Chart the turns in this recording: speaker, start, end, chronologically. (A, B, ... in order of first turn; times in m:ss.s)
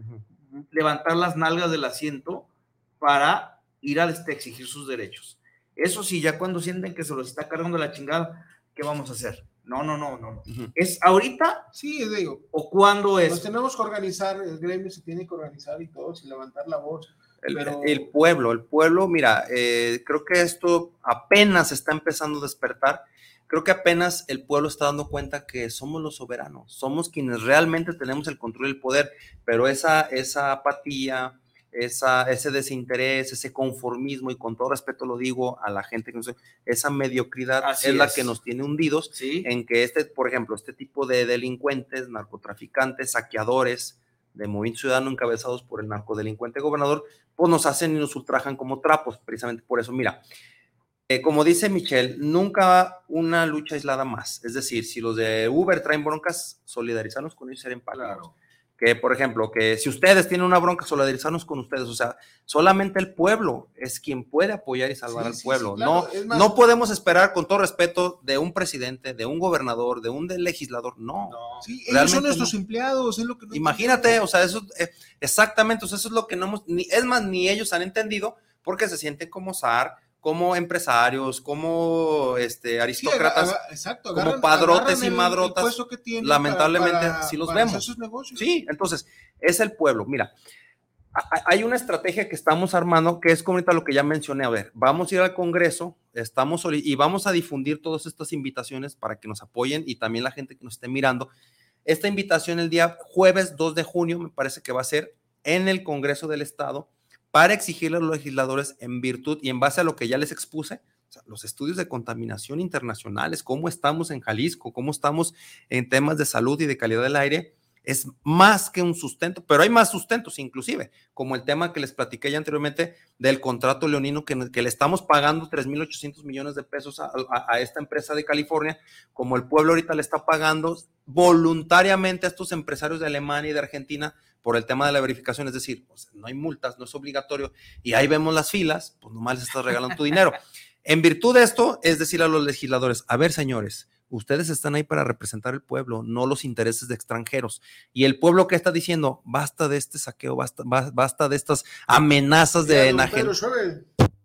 0:00.5-0:02.5 A
0:03.0-0:11.7 A
0:11.7-0:12.4 B
0:12.5-0:13.5 A
0:13.3-0:18.1 B
0:17.4-0:50.2 C
0:37.6-0:38.3 A
0:39.1-0:39.5 A
0:51.1-0:58.2 C
0:57.9-0:58.3 A
0:58.8-1:12.5 C
1:05.1-1:06.6 B
1:11.2-1:11.7 A
1:11.6-1:14.2 B
1:13.5-1:23.6 C
1:23.0-1:28.4 B
1:24.1-1:30.3 C
1:31.1-1:41.3 C
1:41.9-2:33.3 C
2:32.6-2:33.9 B